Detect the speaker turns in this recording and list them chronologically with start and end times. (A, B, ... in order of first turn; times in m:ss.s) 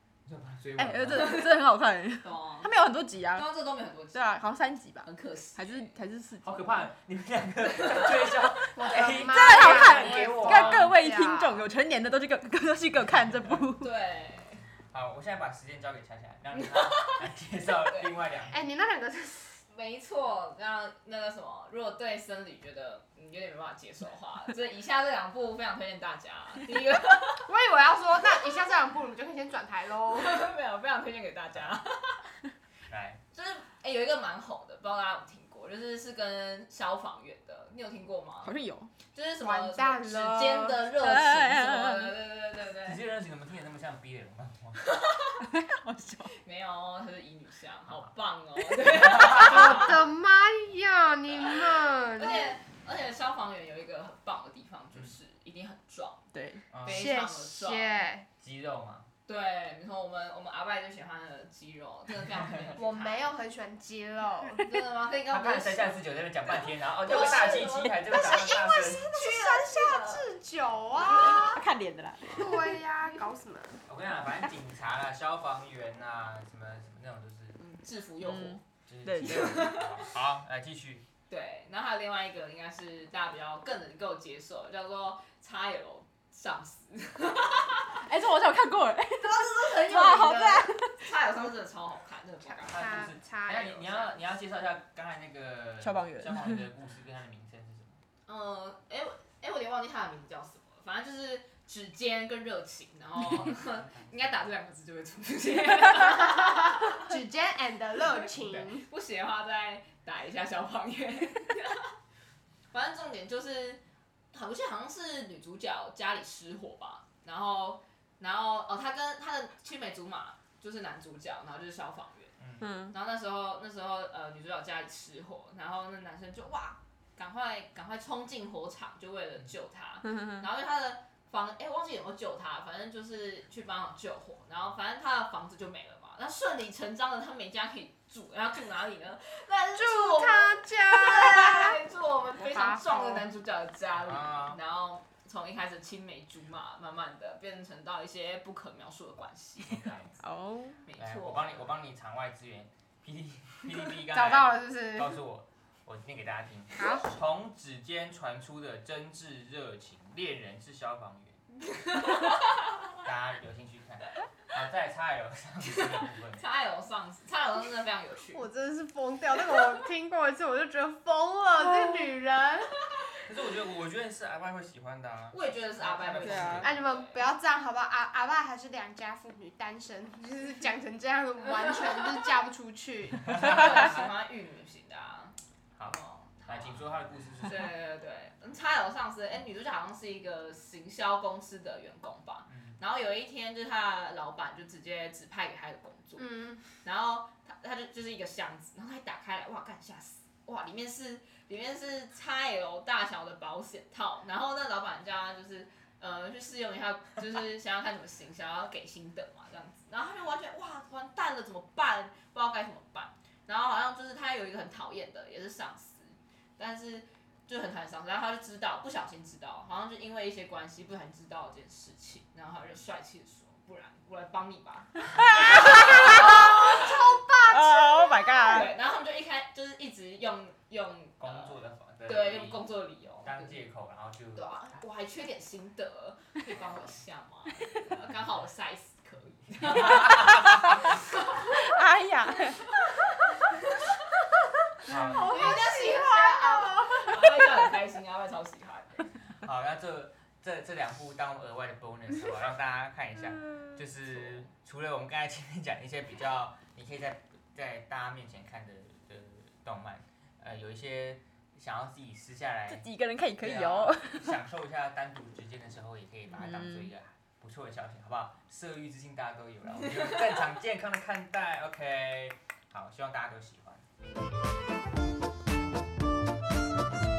0:00.2-0:01.4 A
0:00.8-0:03.5 B
0:01.1-0:01.6 C
0:02.2-0:02.7 C
0:03.3-0:04.4 C
0:04.1-0:06.8 B
0:05.0-0:05.9 C
0:06.4-0:10.9 A
0:07.8-0:08.1 C
0:08.7-0:11.7 D
0:09.2-0:13.9 B
0:10.4-0:10.9 C
0:13.8-0:14.6 C
0:14.9-0:18.6 A
0:16.6-0:17.2 C
0:17.8-0:18.1 C
0:18.5-0:19.6 D
0:19.7-0:27.5 C
0:27.4-0:30.5 D
0:30.1-0:32.3 C
0:32.9-0:33.2 A
0:33.3-0:38.6 C
0:38.4-0:38.9 B
0:39.1-0:43.0 C
0:39.4-0:40.8 D
0:40.9-0:42.2 B
0:42.8-0:44.8 A
0:44.8-0:45.4 C
0:45.4-0:46.3 B
0:46.4-0:50.0 C
0:49.0-0:49.6 A
0:49.3-0:52.6 D
0:51.4-0:56.3 C
0:56.3-0:56.6 B
0:56.7-0:57.1 A
0:56.8-0:58.0 C
0:56.8-0:58.3 D
0:58.4-0:59.1 A
0:59.3-1:03.3 C
1:02.8-1:04.7 D
1:04.6-1:06.0 C
1:05.3-1:09.1 A
1:07.0-1:08.0 C
1:07.0-1:11.6 D
1:09.1-1:10.3 C
1:11.0-1:12.8 B
1:11.0-1:11.4 C
1:12.3-1:13.8 D
1:13.8-1:17.6 A
1:17.6-1:18.6 C
1:18.2-1:19.7 B
1:18.9-1:21.0 A
1:19.2-1:20.1 C
1:21.3-1:28.0 C
1:28.0-1:31.1 B
1:29.2-1:32.9 C
1:32.4-1:34.2 D
1:32.7-1:38.0 A
1:35.8-1:36.6 B
1:38.2-1:47.1 C
1:43.4-1:44.4 A
1:47.1-1:48.8 D
1:48.0-1:52.0 C
1:52.7-2:02.3 C
2:02.4-2:02.7 A
2:02.6-2:02.9 B
2:02.9-2:29.8 C
2:10.1-2:10.4 B
2:19.7-2:21.8 D
2:22.4-2:23.3 D
2:24.0-2:24.6 A
2:29.6-2:30.1 A
2:30.2-2:30.8 B
2:30.8-2:31.7 C
2:31.0-2:41.4 A
2:33.9-2:35.2 D
2:36.8-2:37.1 D
2:41.7-2:42.5 C
2:43.0-2:46.4 A
2:45.8-2:48.4 C
2:48.3-2:52.8 D
2:53.2-2:56.7 A
2:55.3-2:57.2 C
2:56.2-2:56.7 B
2:56.6-3:03.8 D
3:01.5-3:02.2 C
3:03.2-3:04.1 A
3:03.4-3:06.8 C
3:05.8-3:07.7 A
3:07.4-3:47.1 C
3:12.5-3:12.8 A
3:16.2-3:16.6 D
3:45.1-3:46.4 B
3:45.4-3:48.5 D
3:47.4-3:48.7 B
3:48.4-3:53.6 C
3:51.2-3:52.7 A
3:53.2-3:54.5 A
3:54.4-4:01.7 C
3:59.6-4:00.7 A
4:01.5-4:02.7 B
4:02.4-4:03.8 C
4:04.8-4:05.5 A
4:04.8-4:07.2 B
4:05.2-4:09.1 C
4:05.2-4:07.2 D
4:09.4-4:22.9 A
4:14.2-4:14.4 C
4:22.7-4:24.4 B
4:23.4-4:33.8 A
4:26.3-4:26.9 B